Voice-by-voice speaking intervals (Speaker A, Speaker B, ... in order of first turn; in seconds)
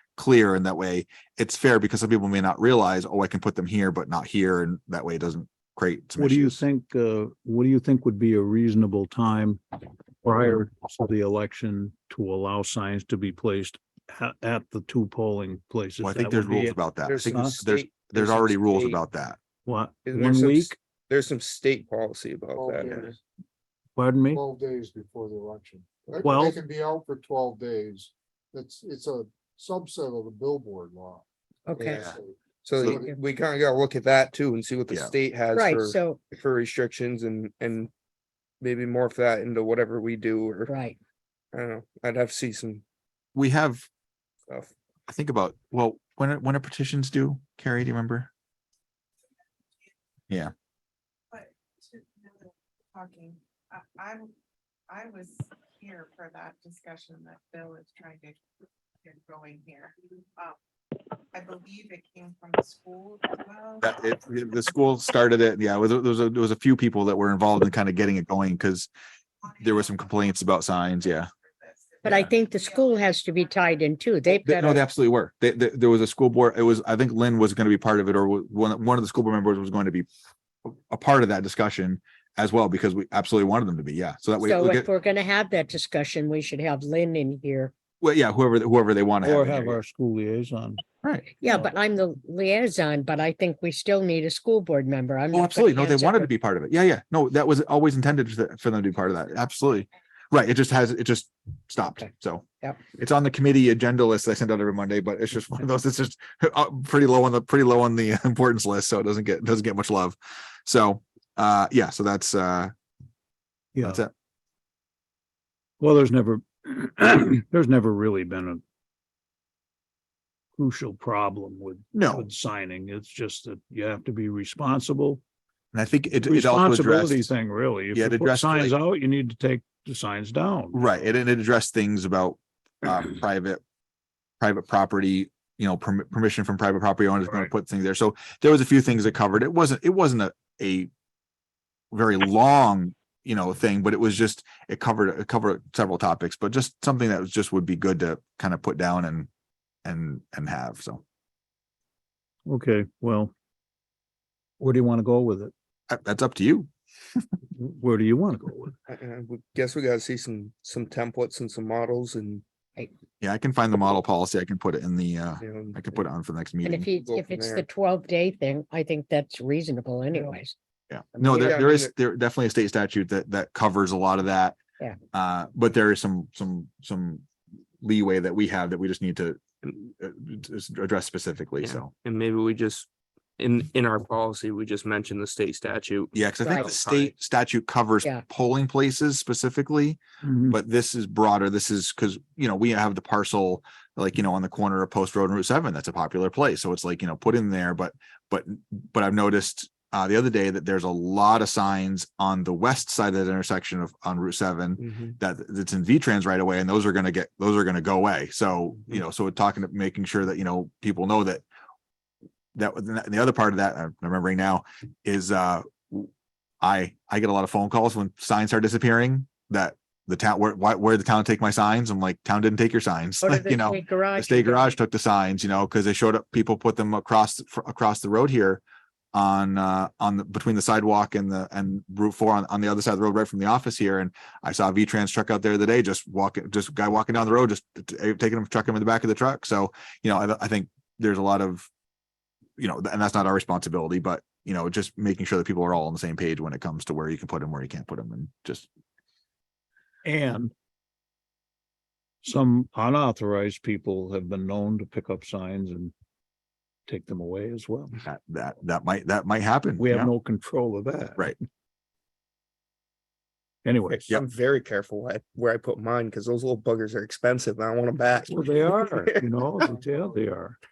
Speaker A: 0.2-6.6, 16.0-19.4, 43.3-43.9, 45.1-48.3, 63.8-68.9, 69.6-71.3, 74.4-80.1, 80.6-84.9, 88.0-89.8, 91.0-91.3, 95.3-112.7, 113.8-114.1, 121.9-122.3, 125.7-127.3, 127.9-128.7, 130.7-133.6, 134.4-140.9, 141.9-149.3, 149.8-151.0, 155.9-156.7, 163.2-166.9, 170.9-174.6, 175.1-177.3, 177.8-181.9, 186.1-211.4, 212.5-216.1, 216.6-228.6, 229.1-241.7, 242.6-248.7, 258.0-260.1
Speaker B: 6.2-9.6, 10.2-17.6, 19.6-20.8, 23.9-24.4, 26.2-26.6, 89.2-90.8, 113.7-114.0, 115.8-118.6, 120.5-125.2, 126.2-130.8, 152.4-153.3, 154.6-155.5, 157.5-158.8, 190.2-190.6, 250.0-250.5, 252.2-255.9, 256.9-257.9, 259.8-261.3, 263.6-264.0, 268.3-270.6
Speaker C: 17.0-19.0, 20.1-23.1, 31.7-37.9, 38.6-40.7, 41.5-42.8, 158.9-162.4, 165.4-165.8, 166.9-167.6, 171.2-171.9, 181.6-187.1, 204.8-205.2, 263.9-269.7
Speaker D: 22.5-23.2, 24.3-31.3, 32.0-33.2
Speaker E: 31.7-32.1, 35.5-36.2, 40.7-41.0, 72.0-74.8, 84.4-87.7, 91.4-96.3, 166.6-170.5, 186.4-186.7, 223.2-224.8
Speaker F: 51.3-54.3, 54.9-58.4, 59.0-60.5, 61.3-63.9, 69.5-73.4